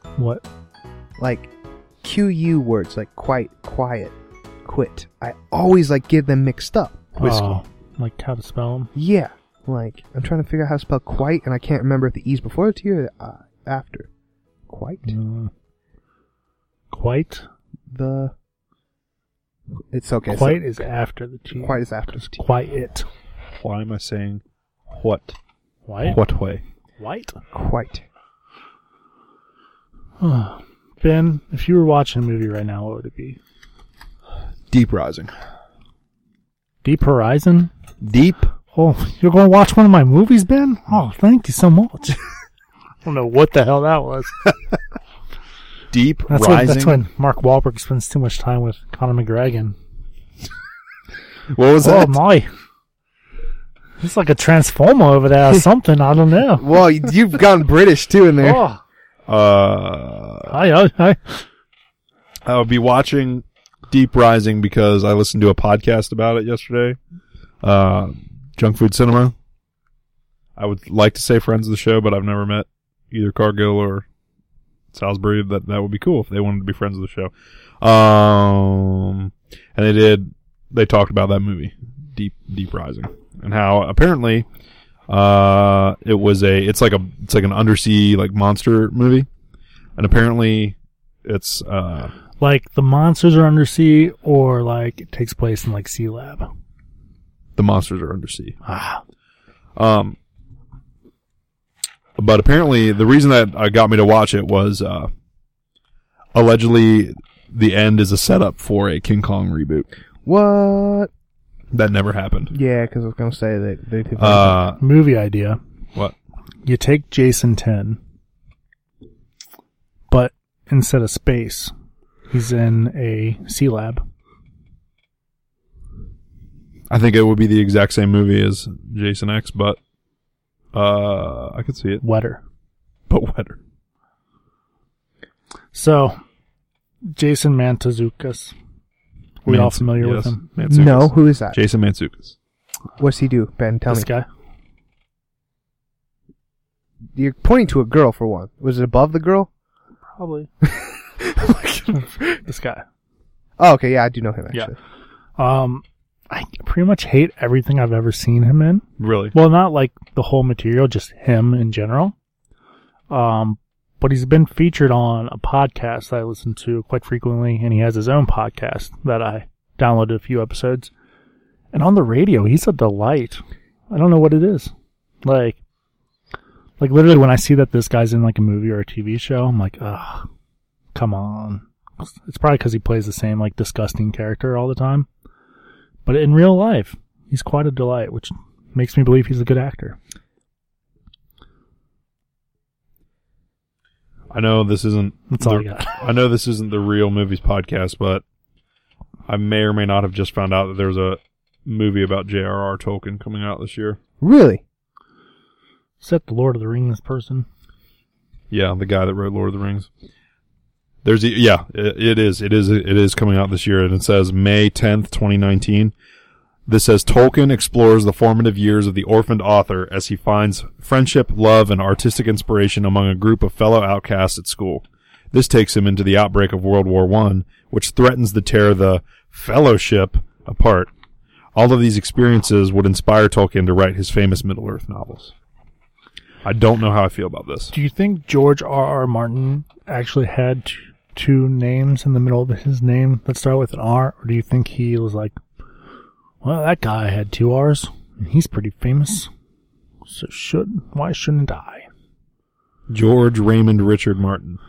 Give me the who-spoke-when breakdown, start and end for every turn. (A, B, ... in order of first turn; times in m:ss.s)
0:00.2-0:00.4 A
0:01.2-0:01.5 B
0:02.0-0:07.6 B
0:07.2-0:08.9 A
0:09.0-0:14.1 B
0:14.7-0:15.2 B
0:15.1-0:15.5 A
0:16.9-0:17.5 A
0:17.9-0:18.3 B
0:19.9-0:20.8 B
0:20.3-0:23.1 A
0:21.5-0:22.4 B
0:23.6-0:25.4 C
0:25.9-0:26.2 A
0:26.0-0:26.6 C
0:27.0-0:27.4 A
0:27.5-0:28.0 B
0:30.2-0:33.4 A
0:34.7-0:35.3 C
0:36.8-0:37.7 A
0:38.0-0:38.5 C
0:38.7-0:42.2 A
0:43.0-0:44.4 A
0:45.9-0:47.0 C
0:46.3-0:49.8 A
0:51.5-0:52.2 C
0:51.8-0:52.5 A
0:54.0-0:56.7 A
0:56.6-0:58.6 B
0:58.4-0:58.8 A
0:59.3-1:00.5 C
1:00.5-1:01.4 A
1:02.5-1:07.0 C
1:07.6-1:09.3 C
1:10.6-1:14.0 C
1:14.9-1:24.5 C
1:25.1-1:29.3 C
1:30.0-1:32.1 C
1:32.4-1:36.5 A
1:37.6-1:38.6 C
1:38.6-1:39.0 A
1:39.8-1:40.2 C
1:42.2-1:45.1 C
1:46.3-1:49.9 C
1:50.2-1:51.1 B
1:51.7-1:52.5 C
1:52.5-1:54.6 B
1:54.2-1:54.8 C
1:54.8-1:55.6 A
1:56.6-1:58.0 A
2:00.1-2:01.7 A
2:02.3-2:04.0 A
2:06.9-2:09.8 C
2:10.7-2:12.0 C
2:12.0-2:12.4 A
2:13.1-2:13.6 C
2:15.7-2:16.2 A
2:17.1-2:18.6 A
2:19.4-2:20.4 A
2:19.5-2:22.4 C
2:20.7-2:21.6 B
2:23.0-2:24.1 B
2:23.9-2:24.3 A
2:27.2-2:29.5 B
2:30.2-2:30.5 A
2:30.6-2:32.3 B
2:31.9-2:32.8 A
2:33.6-2:34.8 B
2:35.4-2:42.2 A
2:39.0-2:39.4 C
2:43.1-2:50.9 A
2:51.7-2:54.7 A
2:55.2-2:55.6 A
2:56.8-3:00.3 A
3:00.9-3:05.1 A
3:06.1-3:10.0 A
3:14.3-3:18.2 C
3:15.3-3:16.0 A
3:19.3-3:24.0 C
3:24.2-3:24.6 B
3:26.0-3:27.5 A
3:28.5-3:29.9 C
3:31.0-3:35.9 C
3:36.7-3:50.9 C
3:51.6-3:55.3 C
3:56.4-3:57.7 C
3:57.7-4:05.4 A
4:06.4-4:09.3 A
4:10.1-4:11.9 A
4:12.9-4:14.6 C